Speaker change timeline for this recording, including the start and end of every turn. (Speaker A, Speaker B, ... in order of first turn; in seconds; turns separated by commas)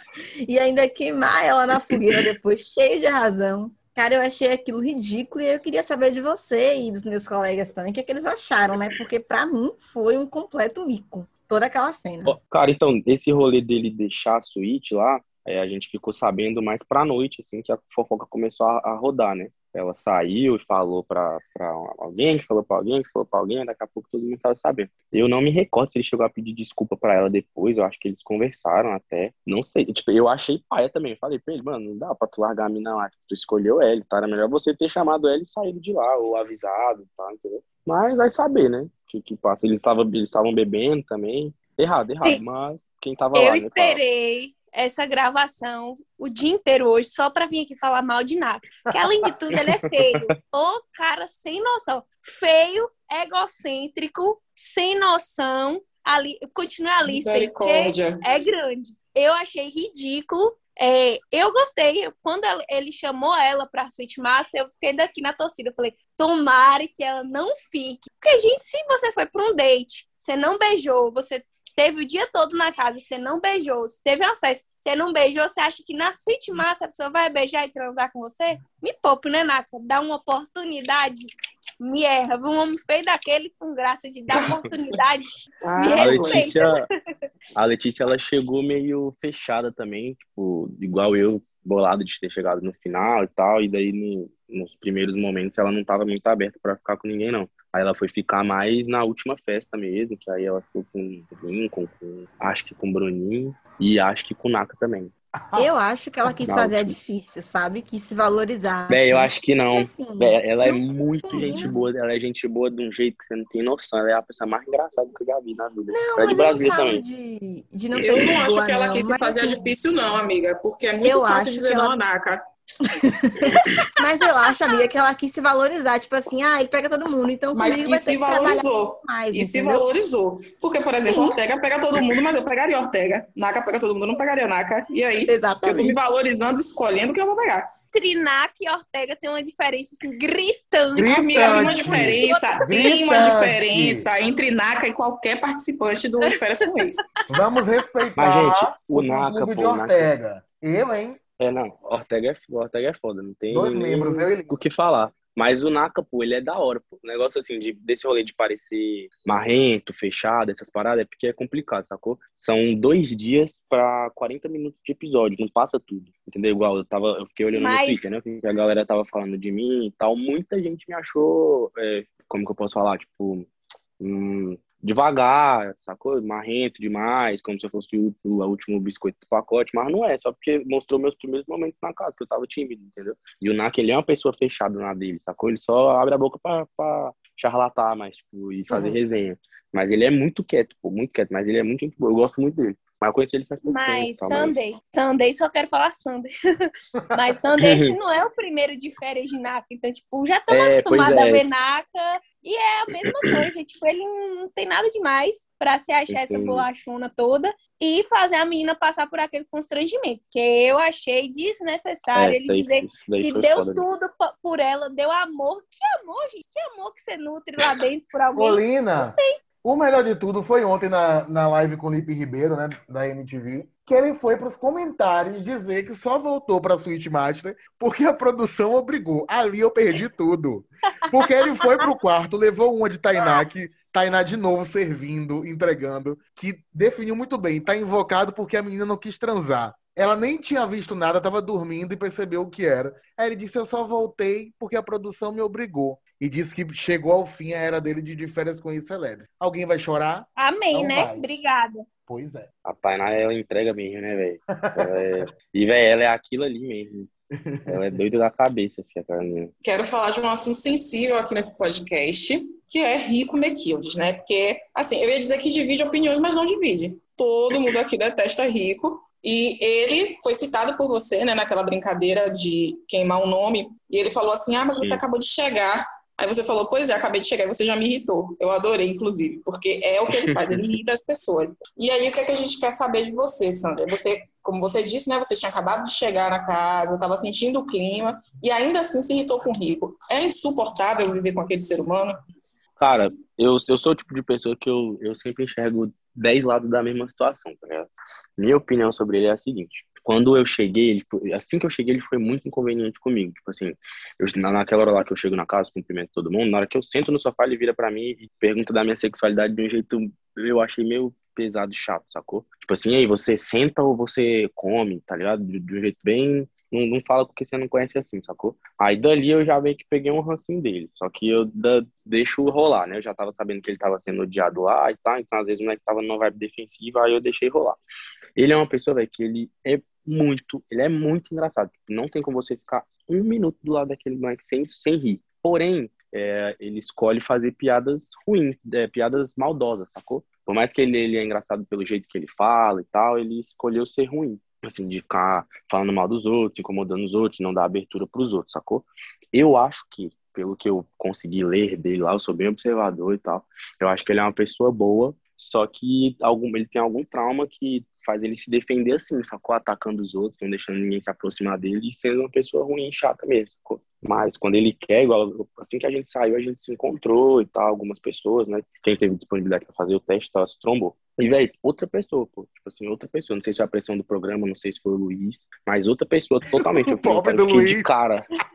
Speaker A: 0.5-12.4, Speaker B: 12.2-44.0, Speaker C: 43.4-86.9, Speaker B: 49.5-50.3, Speaker D: 57.0-58.2, Speaker D: 84.4-84.7, Speaker D: 85.6-86.5, Speaker B: 86.0-86.9, Speaker B: 87.5-105.1, Speaker E: 105.4-105.7, Speaker A: 105.5-111.8, Speaker B: 106.5-107.0, Speaker B: 108.9-117.0, Speaker A: 115.9-119.7, Speaker D: 118.0-122.4, Speaker A: 121.0-122.0, Speaker A: 123.0-129.9, Speaker D: 123.5-123.8, Speaker D: 127.5-137.6, Speaker A: 131.1-131.4, Speaker A: 135.3-136.2, Speaker C: 137.9-143.2, Speaker E: 140.9-144.1, Speaker D: 141.0-147.0, Speaker E: 147.3-151.2, Speaker B: 148.2-150.1, Speaker B: 151.4-173.5, Speaker E: 153.5-154.5, Speaker C: 167.5-168.1, Speaker B: 174.0-194.5, Speaker E: 188.7-189.0, Speaker C: 193.6-219.3, Speaker B: 197.6-197.9, Speaker B: 200.5-201.4, Speaker B: 206.1-206.7, Speaker B: 212.1-213.8, Speaker E: 218.3-251.3, Speaker C: 231.6-231.8, Speaker C: 250.4-251.9, Speaker E: 252.1-252.5, Speaker B: 252.6-257.1, Speaker E: 254.6-255.2, Speaker E: 257.4-257.8, Speaker B: 257.7-259.5, Speaker D: 259.6-292.2, Speaker B: 274.7-275.0, Speaker B: 280.1-280.7, Speaker B: 292.8-327.8, Speaker B: 328.4-378.2, Speaker E: 376.9-377.9